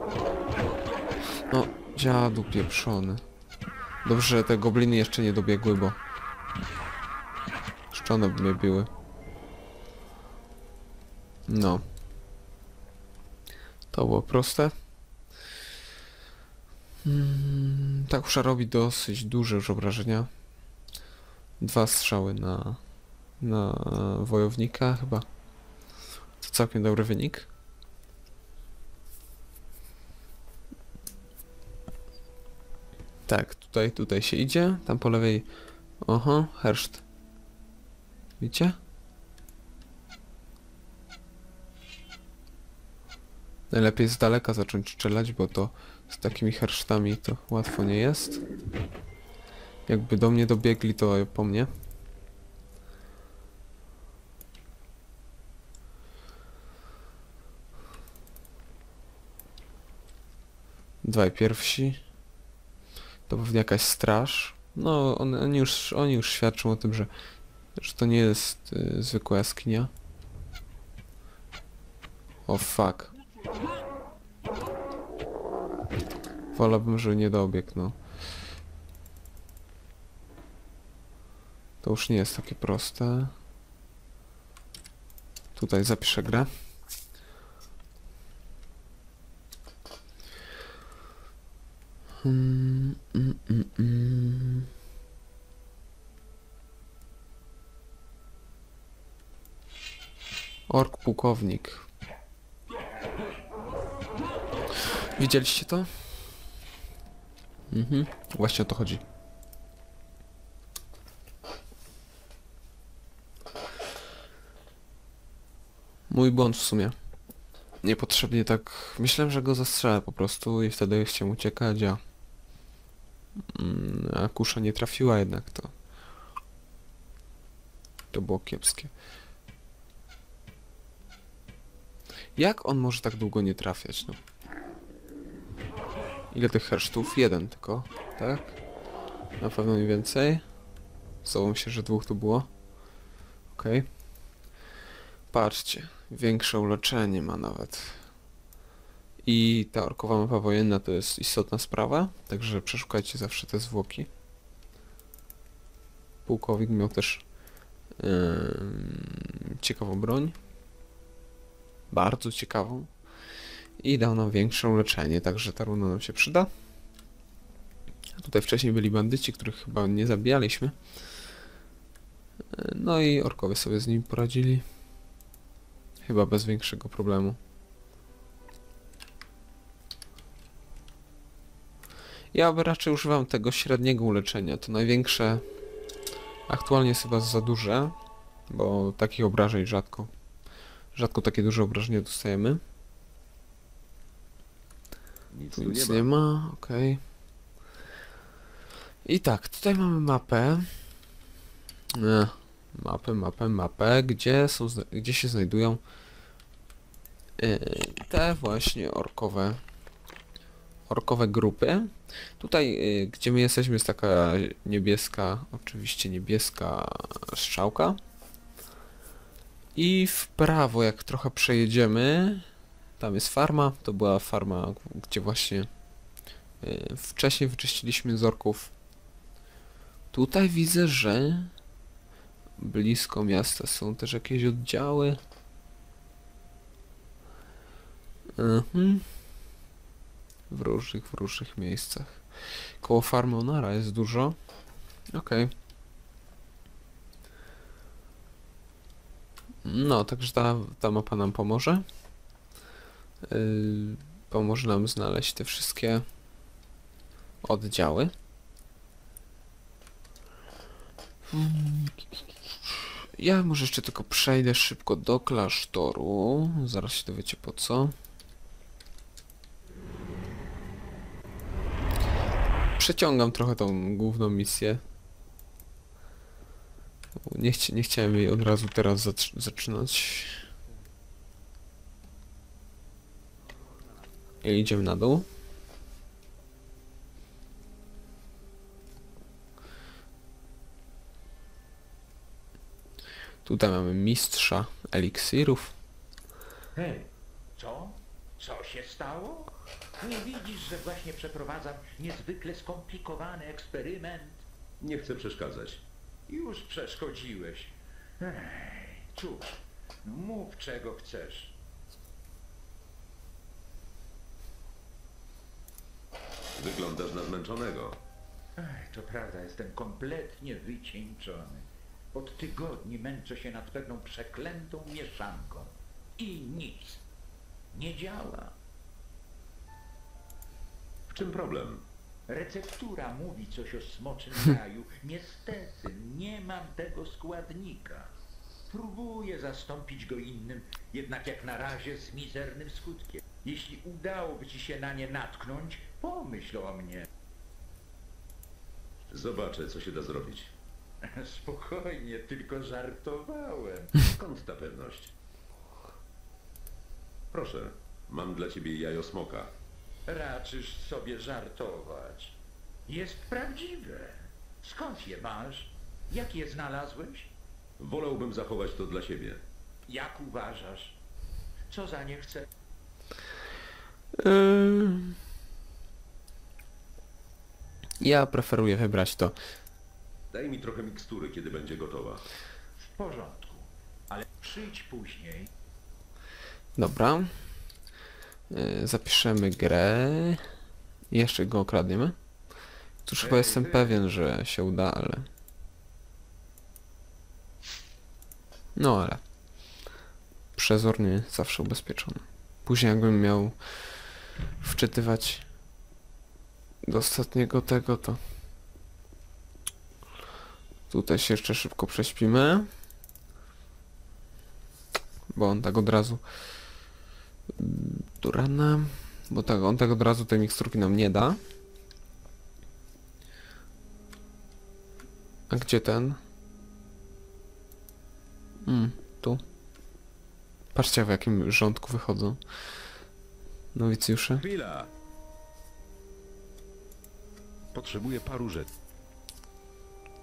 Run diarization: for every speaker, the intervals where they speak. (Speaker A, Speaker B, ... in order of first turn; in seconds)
Speaker A: 1.5-3.2, 4.0-6.0, 7.9-8.9, 11.5-11.8, 13.9-14.7, 17.0-20.3, 21.6-22.8, 23.4-25.3, 26.4-27.5, 33.3-35.5, 36.0-37.0, 38.4-38.8, 43.7-48.4, 49.9-51.7, 61.0-62.0, 63.3-67.1, 67.8-69.9, 72.5-73.1, 76.5-78.0, 81.8-83.3, 85.6-86.5, 92.2-94.7, 100.7-101.9, 104.8-106.3, 107.7-109.0, 116.1-117.0, 117.8-122.0, 123.5-125.7, 128.1-128.9, 132.4-134.2, 136.3-138.6, 139.4-140.4, 141.2-142.5, 143.6-143.9, 145.3-148.0, 149.2-154.1, 156.3-157.2, 158.0-160.4, 161.9-162.9, 163.8-166.5, 168.2-170.8, 172.5-174.7, 176.0-177.4, 182.3-185.4, 186.5-188.0, 188.5-190.1, 190.9-192.6, 195.6-197.0, 199.1-200.7, 201.9-205.8, 207.4-209.6, 210.9-218.0, 219.8-222.5, 223.0-225.7, 226.6-228.7, 230.1-231.5, 232.6-235.2, 238.4-239.1, 240.5-244.4, 245.1-245.5, 249.6-251.8, 253.2-256.1, 257.4-258.1, 261.3-267.9, 272.8-274.8, 277.2-280.4, 284.4-285.3, 293.4-295.8, 374.1-375.2, 378.0-379.4, 386.8-387.3, 388.5-390.4, 391.1-392.2, 393.1-395.3, 398.8-399.2, 400.6-403.6, 404.6-405.5, 406.9-408.2, 410.9-412.7, 415.3-416.2, 417.5-421.4, 425.5-426.2, 428.6-429.4, 430.7-432.4, 433.7-434.4
Speaker B: 195.3-196.1, 304.8-305.9, 316.6-318.0, 331.1-331.9, 349.1-350.6, 354.0-355.1, 357.3-359.5, 367.8-369.4, 380.3-382.2, 393.5-393.8, 434.4-434.9, 437.7-438.7
Speaker C: 296.8-304.4, 306.3-311.6, 318.6-327.1, 327.7-328.6, 332.3-338.1, 338.7-347.1, 351.0-353.9, 360.1-367.3, 369.9-371.0, 371.7-372.5, 382.8-385.5